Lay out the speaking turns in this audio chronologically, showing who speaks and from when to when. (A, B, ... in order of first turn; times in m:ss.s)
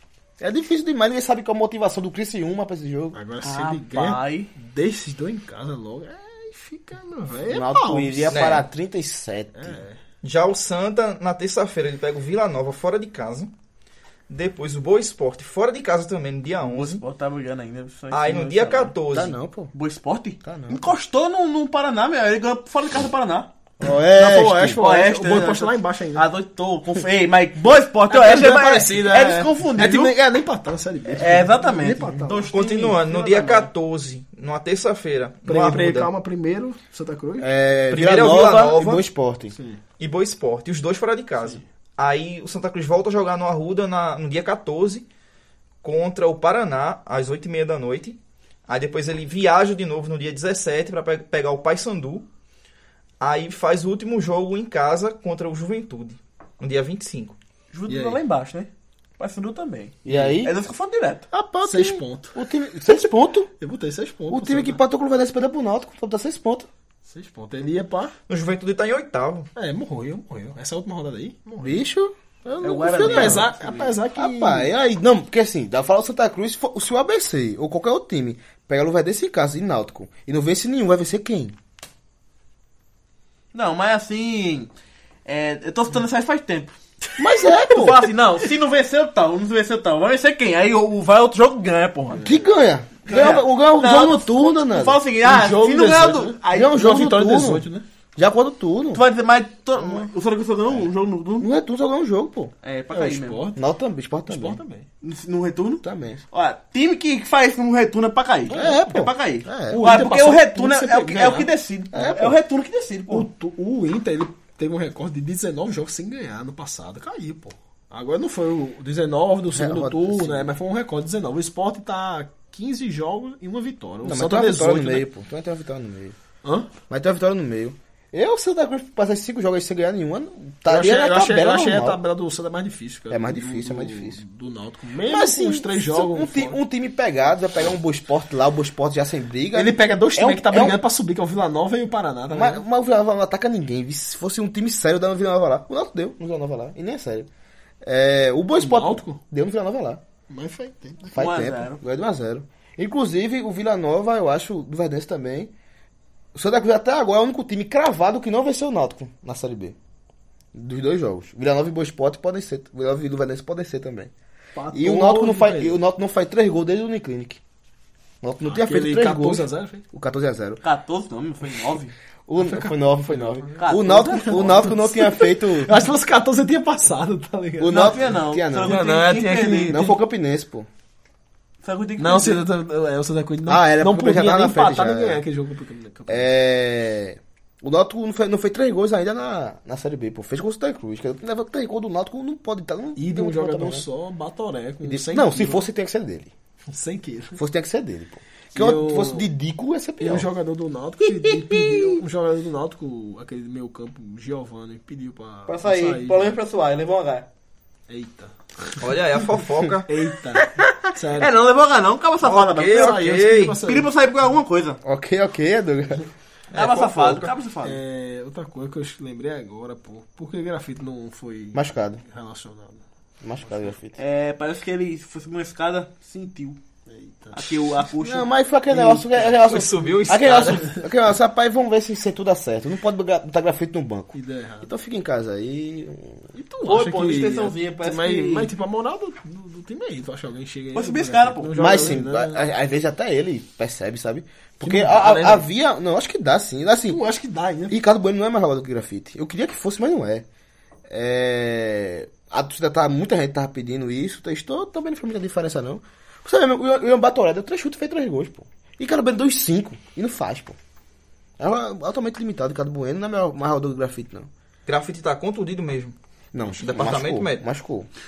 0:00.4-0:03.2 A
0:03.1-0:08.4 B
0:03.4-0:04.5 C
0:07.5-0:09.8 A
0:08.3-0:08.6 D
0:09.5-0:10.0 B
0:10.2-0:13.5 D
0:14.3-0:17.0 D
0:16.6-0:18.9 C
0:18.1-0:19.4 D
0:19.1-0:19.7 A
0:19.7-0:23.5 C
0:20.4-0:20.9 A
0:23.8-0:24.8 A
0:24.2-0:30.1 C
0:24.2-0:26.2 B
0:28.1-0:32.5 B
0:31.1-0:33.7 C
0:32.5-0:36.1 D
0:35.4-0:37.5 B
0:37.4-0:39.5 A
0:37.9-0:39.0 D
0:39.5-0:39.8 B
0:40.0-0:45.0 D
0:45.8-0:52.2 D
0:53.2-0:57.3 D
0:57.7-1:01.2 C
0:57.9-0:58.2 B
1:00.0-1:00.5 A
1:00.1-1:00.4 B
1:01.3-1:03.5 A
1:01.6-1:02.4 B
1:03.6-1:04.8 B
1:04.3-1:06.7 A
1:07.1-1:08.1 B
1:08.3-1:09.5 D
1:09.6-1:11.8 B
1:11.6-1:13.5 A
1:12.6-1:13.9 C
1:13.0-1:14.7 B
1:14.1-1:21.5 A
1:23.5-1:24.7 C
1:25.2-1:32.3 C
1:27.2-1:28.1 A
1:32.2-1:35.0 A
1:33.1-1:37.3 C
1:35.2-1:37.8 B
1:36.5-1:39.0 A
1:38.9-1:41.5 C
1:41.4-1:42.5 A
1:42.6-1:43.4 C
1:42.9-1:43.6 B
1:43.6-1:44.6 A
1:44.3-1:44.9 B
1:45.0-1:53.3 C
1:45.8-1:46.2 A
1:48.5-1:50.1 A
1:49.7-1:51.5 B
1:51.9-1:52.4 A
1:53.1-2:05.1 B
1:59.5-2:00.5 A
2:04.0-2:06.2 A
2:06.4-2:06.7 B
2:06.9-2:12.0 A
2:10.6-2:16.6 B
2:13.1-2:14.2 A
2:15.0-2:20.8 A
2:19.5-2:22.6 B
2:22.3-2:27.3 A
2:27.8-2:30.0 A
2:28.6-2:29.2 B
2:30.3-2:31.2 B
2:31.1-2:31.8 C
2:31.1-2:35.5 A
2:36.3-2:39.8 A
2:40.5-2:44.1 A
2:44.5-2:45.8 B
2:44.7-2:47.4 A
2:48.2-2:50.6 A
2:48.4-2:49.8 B
2:50.6-2:51.9 C
2:52.3-2:55.8 A
2:52.4-2:58.0 B
2:53.6-2:54.7 C
2:57.6-2:58.8 A
2:57.7-2:59.9 C
2:58.6-3:00.0 B
2:59.7-3:00.7 A
3:01.6-3:02.4 C
3:02.0-3:06.3 B
3:03.5-3:05.2 A
3:06.1-3:13.8 A
3:13.0-3:15.7 B
3:14.8-3:16.3 A
3:16.7-3:17.4 B
3:17.4-3:20.3 A
3:18.5-3:19.3 B
3:20.0-3:26.4 B
3:21.4-3:21.8 C
3:25.4-3:27.3 C
3:27.9-3:28.9 B
3:28.8-3:29.9 D
3:29.8-3:31.3 B
3:30.5-3:33.0 C
3:32.2-3:33.6 D
3:32.7-3:33.9 B
3:33.6-3:34.8 C
3:34.8-3:36.0 A
3:36.5-3:37.3 D
3:36.5-3:37.8 C
3:37.6-3:42.8 B
3:41.5-3:42.0 A
3:43.2-3:44.0 A
3:44.0-3:46.6 C
3:46.9-3:47.8 B
3:47.3-3:49.0 C
3:48.0-3:56.3 A
3:49.3-3:50.8 D
3:54.1-3:54.7 B
3:56.3-4:02.4 B
3:56.6-3:58.5 C
4:00.7-4:02.0 C
4:01.6-4:07.0 A
4:04.6-4:05.5 B
4:06.9-4:07.8 B
4:07.7-4:10.2 A
4:10.9-4:20.6 A
4:21.4-4:24.3 A
4:24.6-4:25.9 D
4:26.3-4:27.9 A
4:26.5-4:27.4 D